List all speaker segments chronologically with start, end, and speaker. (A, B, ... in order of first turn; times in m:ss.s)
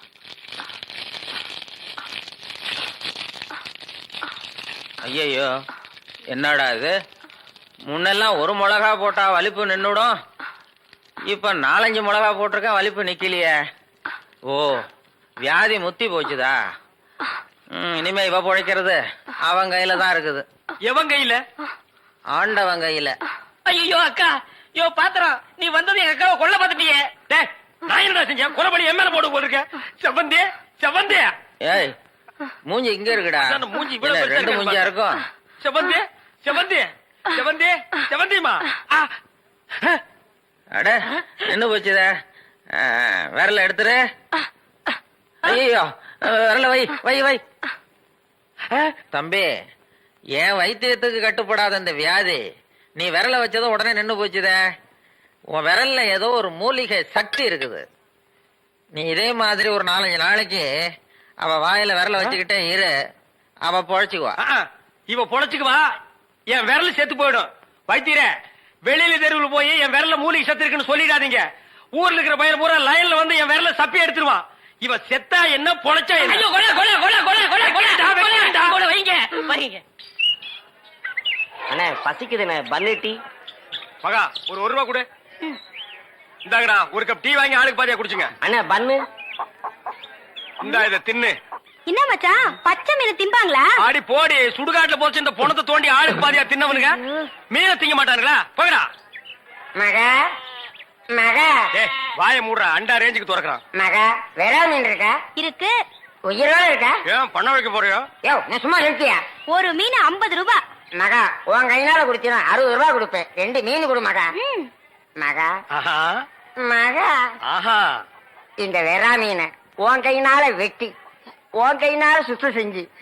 0:05.0-0:05.5 A
0:06.3-0:07.0 A
0:07.9-0:10.2 A
0:11.3-0:13.6 A
0:14.5-0:14.9 A
0:15.4-0:16.6 A
0:17.7-0:20.4 A
0:20.8-0:21.4 B
0:22.3-0:23.2 A
0:23.7-0:27.1 C
0:27.3-0:31.3 B
0:31.6-0:32.0 A
0:32.7-0:35.2 A
0:33.4-0:34.9 B
0:35.6-0:39.1 B
0:40.8-0:42.1 A
0:42.7-0:44.0 A
0:45.4-0:47.4 A
0:49.1-0:49.5 A
0:50.4-0:52.4 A
0:53.0-0:54.6 A
0:55.5-0:57.8 A
0:58.9-1:00.7 A
1:01.4-1:02.9 A
1:03.7-1:04.4 A
1:04.4-1:05.8 B
1:06.5-1:08.3 B
1:08.9-1:11.4 B
1:12.0-1:16.5 B
1:16.2-1:19.8 C
1:17.6-1:18.8 B
1:21.7-1:23.2 D
1:24.0-1:25.1 B
1:26.5-1:28.3 B
1:28.4-1:29.0 D
1:30.6-1:31.4 B
1:31.9-1:33.7 E
1:33.8-1:38.9 B
1:39.8-1:40.1 F
1:41.2-1:41.6 F
1:41.8-1:43.6 B
1:43.8-1:45.2 F
1:45.4-1:45.7 E
1:46.3-1:46.9 F
1:47.1-1:48.1 B
1:48.2-1:49.2 F
1:49.5-1:50.6 E
1:51.0-1:54.3 F
1:54.4-1:54.7 E
1:55.2-1:55.5 F
1:55.7-1:56.2 B
1:56.6-1:57.2 F
1:57.5-1:58.0 B
1:58.6-2:00.9 F
2:01.6-2:02.9 F